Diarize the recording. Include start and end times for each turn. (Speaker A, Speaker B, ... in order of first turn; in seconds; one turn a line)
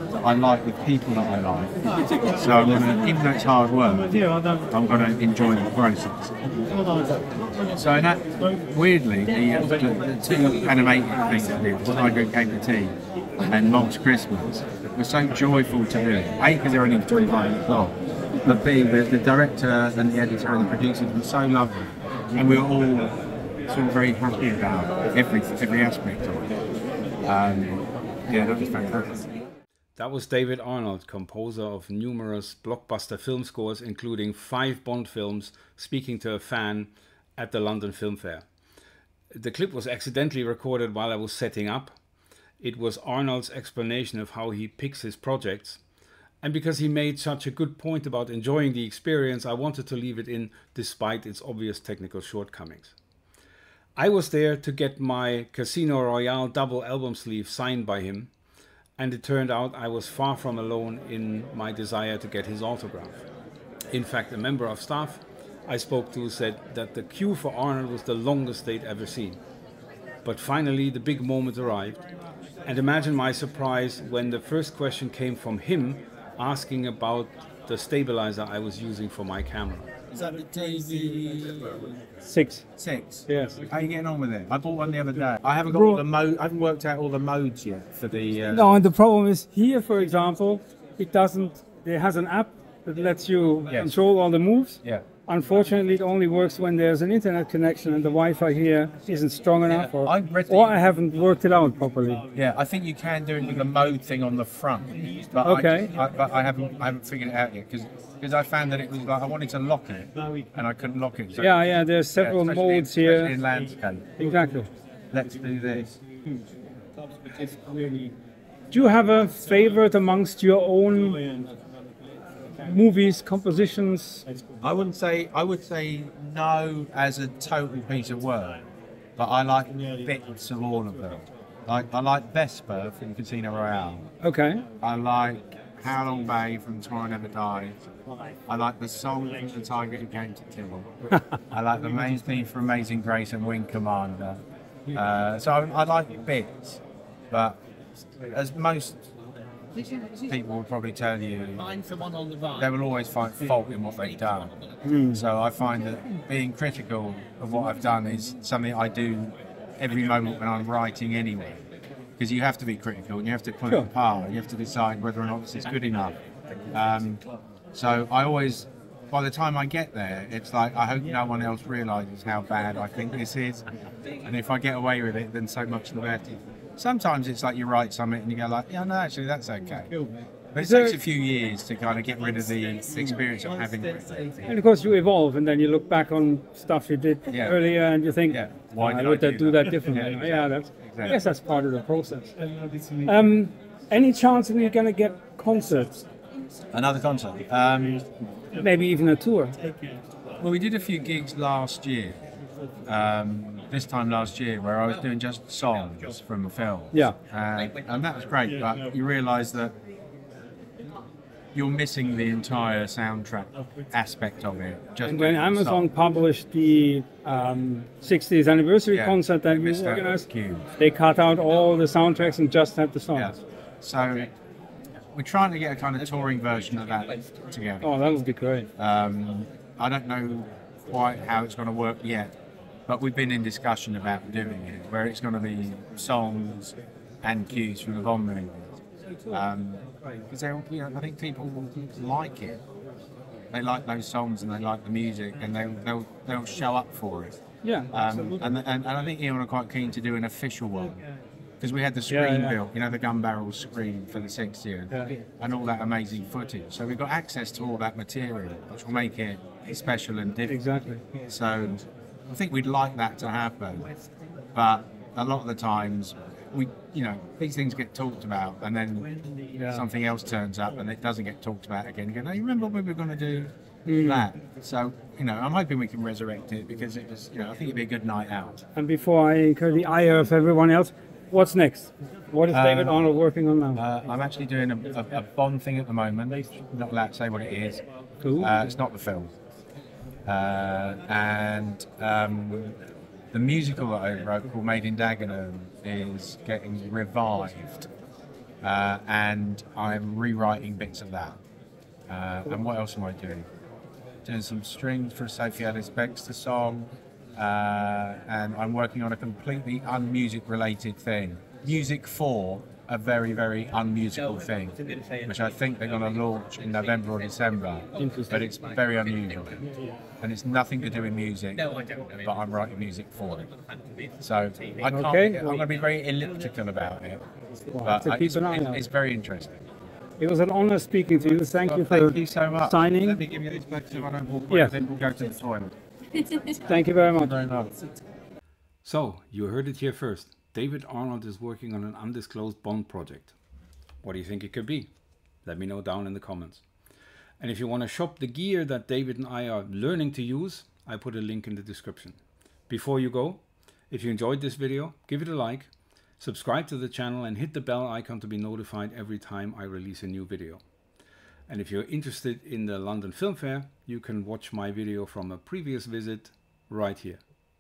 Speaker A: 0.2-1.7
Speaker A: 2.3-6.3
Speaker A: 7.7-23.2
Speaker A: 23.7-26.5
Speaker A: 27.2-29.2
Speaker B: 29.9-38.4
Speaker B: 39.3-42.0
Speaker B: 42.6-45.8
Speaker B: 46.4-52.9
Speaker B: 54.0-58.3
Speaker B: 59.0-63.2
Speaker B: 63.9-69.4
Speaker B: 70.2-72.0
Speaker B: 72.6-79.9
Speaker A: 80.1-81.9
Speaker C: 82.2-82.6
Speaker A: 82.8-88.8
Speaker C: 83.3-83.6
Speaker C: 85.7-86.0
Speaker C: 88.5-102.2
Speaker A: 99.7-100.8
Speaker A: 102.3-111.5
Speaker C: 105.4-105.9
Speaker C: 111.4-113.3
Speaker A: 112.1-114.2
Speaker C: 114.2-114.7
Speaker A: 115.1-116.0
Speaker C: 118.7-121.3
Speaker C: 122.6-124.2
Speaker A: 124.6-134.1
Speaker C: 134.2-134.6
Speaker A: 134.8-137.8
Speaker A: 138.5-147.6
Speaker A: 148.3-149.0
Speaker A: 149.9-161.6
Speaker C: 154.8-155.2
Speaker A: 162.2-166.2
Speaker A: 166.7-180.0
Speaker A: 180.5-184.5
Speaker C: 180.6-181.0
Speaker C: 184.5-192.3
Speaker A: 187.3-187.6
Speaker A: 188.3-191.2
Speaker C: 193.0-196.1
Speaker A: 196.7-198.1
Speaker C: 198.5-199.6
Speaker A: 200.4-202.2
Speaker A: 202.8-209.7
Speaker A: 211.5-215.9
Speaker C: 215.0-220.2
Speaker A: 218.9-220.7
Speaker C: 220.8-223.3
Speaker A: 223.1-224.3
Speaker A: 225.1-227.9
Speaker C: 227.8-228.7
Speaker A: 228.8-232.3
Speaker A: 232.9-242.6
Speaker A: 243.5-247.4
Speaker C: 247.6-248.0
Speaker A: 247.9-251.0
Speaker A: 251.6-260.6
Speaker C: 252.1-252.6
Speaker C: 260.5-261.0
Speaker A: 261.2-263.9
Speaker A: 264.5-278.6
Speaker C: 269.6-269.8
Speaker C: 273.9-274.2
Speaker C: 278.7-283.8
Speaker A: 282.5-283.0
Speaker A: 283.7-287.8
Speaker C: 288.2-288.5
Speaker A: 288.4-289.3
Speaker A: 290.2-292.8
Speaker A: 293.3-297.9
Speaker A: 298.6-301.4
Speaker A: 302.1-303.5
Speaker A: 304.2-319.6
Speaker C: 318.0-318.4
Speaker A: 320.2-323.5
Speaker A: 324.2-327.2
Speaker C: 324.9-325.6
Speaker C: 327.7-328.8
Speaker A: 327.8-329.6
Speaker C: 330.2-333.2
Speaker A: 331.5-335.7
Speaker C: 334.5-334.8
Speaker C: 336.5-337.3
Speaker A: 337.1-337.7
Speaker B: 338.8-343.3
Speaker B: 344.0-344.9
Speaker B: 345.4-346.6
Speaker B: 347.4-360.6
Speaker B: 361.5-367.2